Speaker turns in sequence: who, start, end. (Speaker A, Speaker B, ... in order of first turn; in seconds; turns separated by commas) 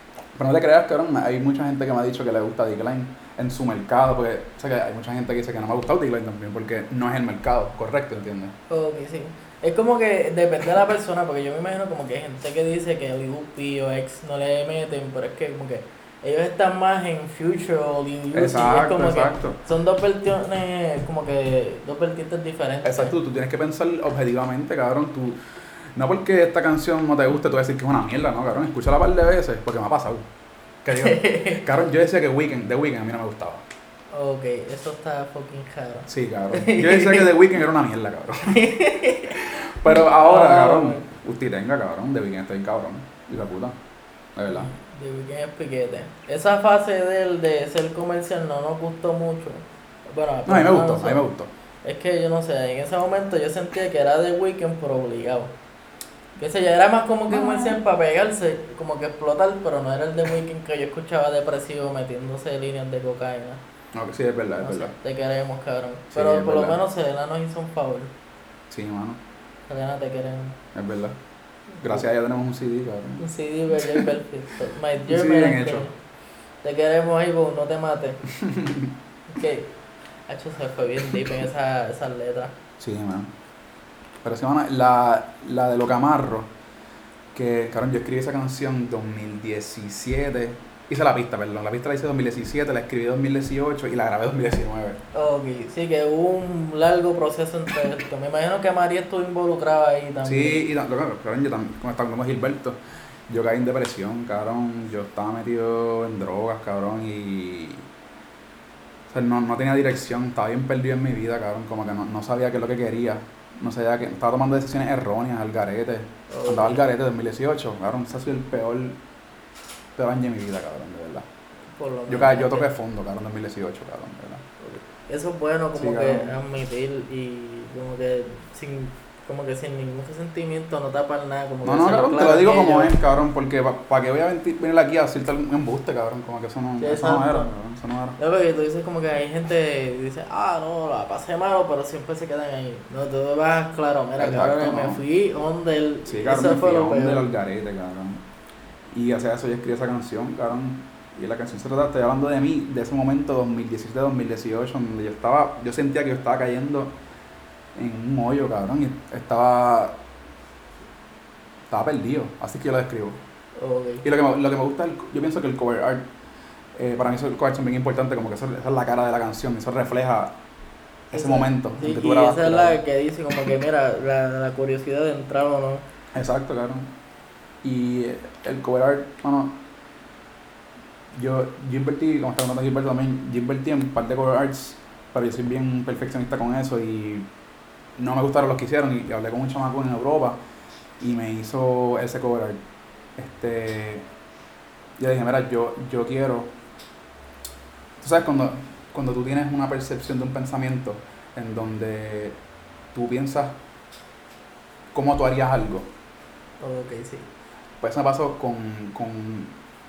Speaker A: 0.3-8.5, Speaker B: 8.7-23.1, Speaker A: 18.3-19.6, Speaker A: 22.8-30.2, Speaker A: 30.8-33.6, Speaker B: 30.9-31.6, Speaker B: 34.1-37.3, Speaker A: 36.1-38.6, Speaker B: 38.5-41.0, Speaker A: 39.3-43.7, Speaker A: 44.4-44.7, Speaker B: 44.5-51.2, Speaker A: 50.5-51.5, Speaker B: 51.8-55.5, Speaker B: 56.4-63.6, Speaker A: 57.3-57.8, Speaker A: 63.9-64.9, Speaker B: 64.6-68.1, Speaker A: 66.1-66.8, Speaker A: 68.7-69.2, Speaker B: 69.7-70.6, Speaker A: 70.7-71.2, Speaker B: 71.7-72.0, Speaker A: 71.8-73.2, Speaker B: 73.2-75.9, Speaker A: 73.8-74.1, Speaker A: 75.0-75.8, Speaker B: 76.6-78.2, Speaker A: 78.3-78.9, Speaker B: 79.3-79.7, Speaker B: 80.3-82.5, Speaker A: 82.8-83.3, Speaker A: 84.2-86.5, Speaker A: 87.3-95.0, Speaker B: 95.1-100.6, Speaker A: 100.2-107.8, Speaker A: 109.1-119.0, Speaker B: 116.3-116.8, Speaker A: 120.0-121.2, Speaker B: 121.7-122.7, Speaker A: 122.1-124.4, Speaker B: 124.6-132.9, Speaker A: 125.8-126.3, Speaker A: 131.6-138.2, Speaker B: 136.8-137.5, Speaker B: 138.2-147.2, Speaker A: 144.2-145.0, Speaker A: 146.1-148.2, Speaker A: 148.9-156.9, Speaker A: 157.7-160.0, Speaker A: 161.7-163.2, Speaker B: 163.6-164.0, Speaker A: 164.0-166.0, Speaker A: 166.7-170.3, Speaker A: 171.1-172.8, Speaker B: 171.1-175.8, Speaker A: 176.1-176.9, Speaker A: 177.6-179.6, Speaker A: 181.1-187.3, Speaker A: 187.9-190.4, Speaker A: 191.0-192.6, Speaker A: 193.2-194.0, Speaker A: 195.0-196.5, Speaker A: 198.0-202.4, Speaker A: 202.9-203.6, Speaker A: 204.9-205.9, Speaker B: 206.6-207.3, Speaker A: 207.8-209.5